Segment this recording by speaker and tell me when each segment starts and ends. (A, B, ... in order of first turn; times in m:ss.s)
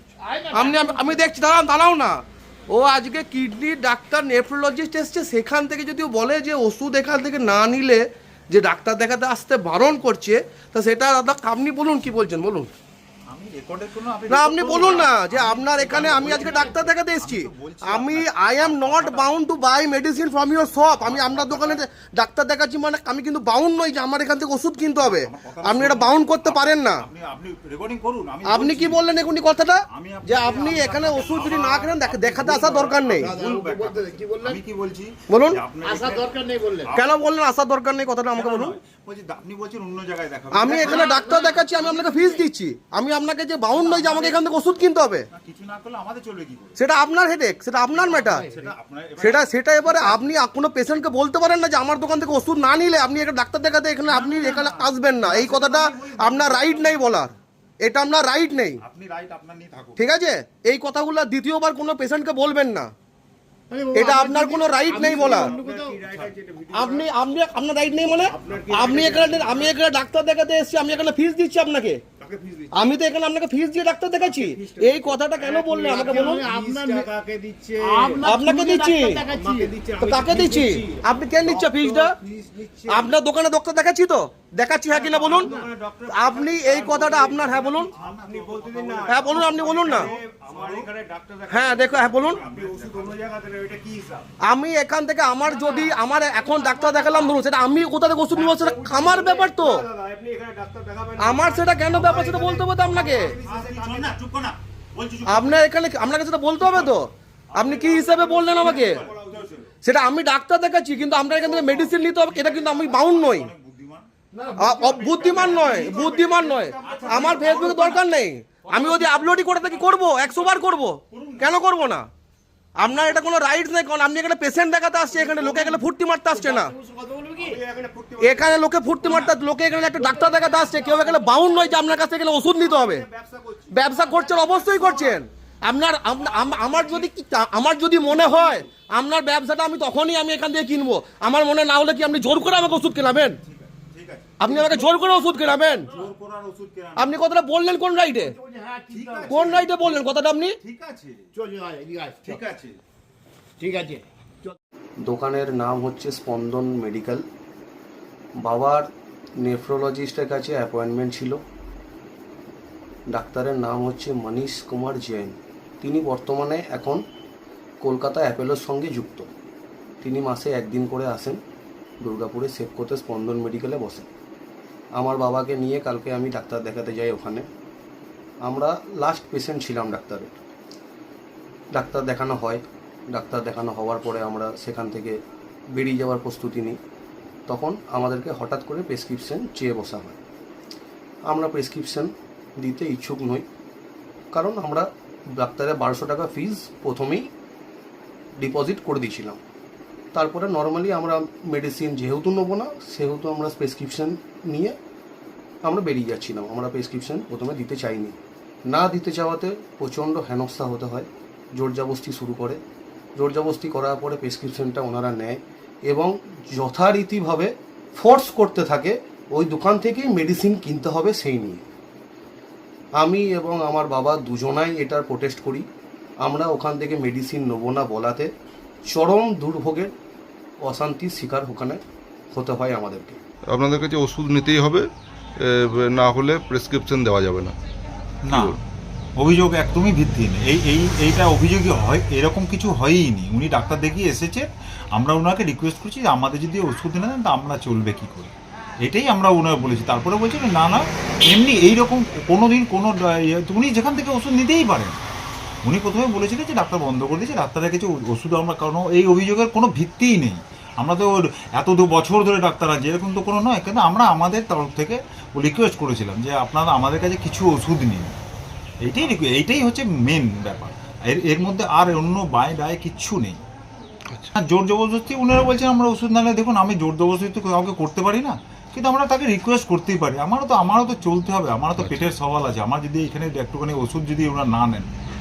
0:00.2-0:01.2 A
0:00.5-0:12.7 B
0:13.3-0:19.3 C
0:14.3-0:27.1 B
0:21.0-0:21.8 C
0:25.0-0:29.3 C
0:28.5-0:33.3 B
0:29.9-0:37.1 C
0:33.2-0:34.6 A
0:35.3-0:35.6 B
0:35.8-0:36.9 A
0:36.9-0:38.8 B
0:38.3-0:41.4 C
0:40.5-0:45.3 B
0:40.8-0:42.3 A
0:43.8-0:44.2 C
0:45.3-0:46.8 C
0:46.8-0:48.5 B
0:47.9-0:50.2 C
0:49.2-0:58.8 B
0:54.1-0:57.2 C
0:58.8-1:00.0 C
1:00.0-1:02.9 B
1:03.7-1:06.0 A
1:03.9-1:05.5 B
1:04.9-1:07.0 D
1:06.0-1:06.3 C
1:06.7-1:12.0 B
1:08.4-1:09.2 C
1:08.4-1:09.7 D
1:12.2-1:13.0 D
1:12.7-1:16.5 B
1:14.2-1:23.1 D
1:15.9-1:17.1 A
1:17.8-1:19.8 A
1:18.2-1:19.2 B
1:20.0-1:22.2 B
1:22.9-1:25.6 B
1:24.9-1:34.3 C
1:26.1-1:27.9 B
1:28.1-1:29.0 D
1:29.0-1:30.1 B
1:30.5-1:30.9 D
1:31.5-1:32.4 B
1:32.4-1:33.8 D
1:34.4-1:39.8 B
1:35.6-1:36.0 D
1:36.5-1:37.0 D
1:38.4-1:44.2 D
1:41.2-1:43.4 B
1:41.9-1:42.4 C
1:42.9-1:45.6 C
1:45.3-1:49.1 B
1:46.6-1:47.0 C
1:47.5-1:49.5 C
1:48.6-1:49.6 D
1:49.8-1:53.5 B
1:51.3-1:54.1 C
1:54.4-1:55.7 A
1:54.4-1:55.2 D
1:54.6-2:02.0 B
1:54.6-1:58.0 C
1:58.8-1:59.2 A
1:59.6-2:00.6 C
2:01.1-2:01.5 C
2:02.8-2:06.8 B
2:05.2-2:05.6 C
2:06.3-2:07.6 A
2:07.4-2:08.3 C
2:07.4-2:08.2 D
2:08.2-2:13.1 B
2:09.0-2:09.4 C
2:10.8-2:11.5 A
2:12.6-2:15.2 C
2:13.7-2:23.4 B
2:16.1-2:17.1 C
2:18.1-2:18.7 C
2:23.4-2:24.9 C
2:24.4-2:25.9 B
2:25.9-2:27.2 C
2:27.0-2:28.4 B
2:28.2-2:29.3 A
2:28.9-2:30.0 C
2:29.3-2:30.6 B
2:30.6-2:31.3 C
2:31.3-2:32.3 A
2:32.2-2:32.8 C
2:33.6-2:34.0 A
2:35.0-2:37.2 B
2:38.4-2:38.9 B
2:39.4-2:41.4 B
2:43.1-2:47.0 B
2:47.8-2:49.3 B
2:50.0-2:51.4 B
2:52.0-2:54.1 B
2:55.0-2:57.5 B
2:58.5-3:00.3 B
3:01.7-3:05.2 B
3:05.7-3:06.8 B
3:07.5-3:10.2 B
3:11.3-3:13.5 B
3:14.3-3:14.9 B
3:15.4-3:17.3 B
3:18.4-3:19.4 B
3:20.1-3:24.8 B
3:25.6-3:28.2 B
3:28.7-3:32.6 B
3:33.2-3:41.6 B
3:43.0-3:45.7 B
3:46.2-3:48.3 B
3:48.9-3:49.9 B
3:50.6-3:51.8 B
3:52.3-3:53.2 B
3:53.5-3:57.6 E
3:58.2-3:58.6 C
3:58.3-3:58.6 E
3:59.2-4:15.0 C
4:15.6-4:28.2 C
4:28.8-4:33.4 C
4:34.3-4:44.9 C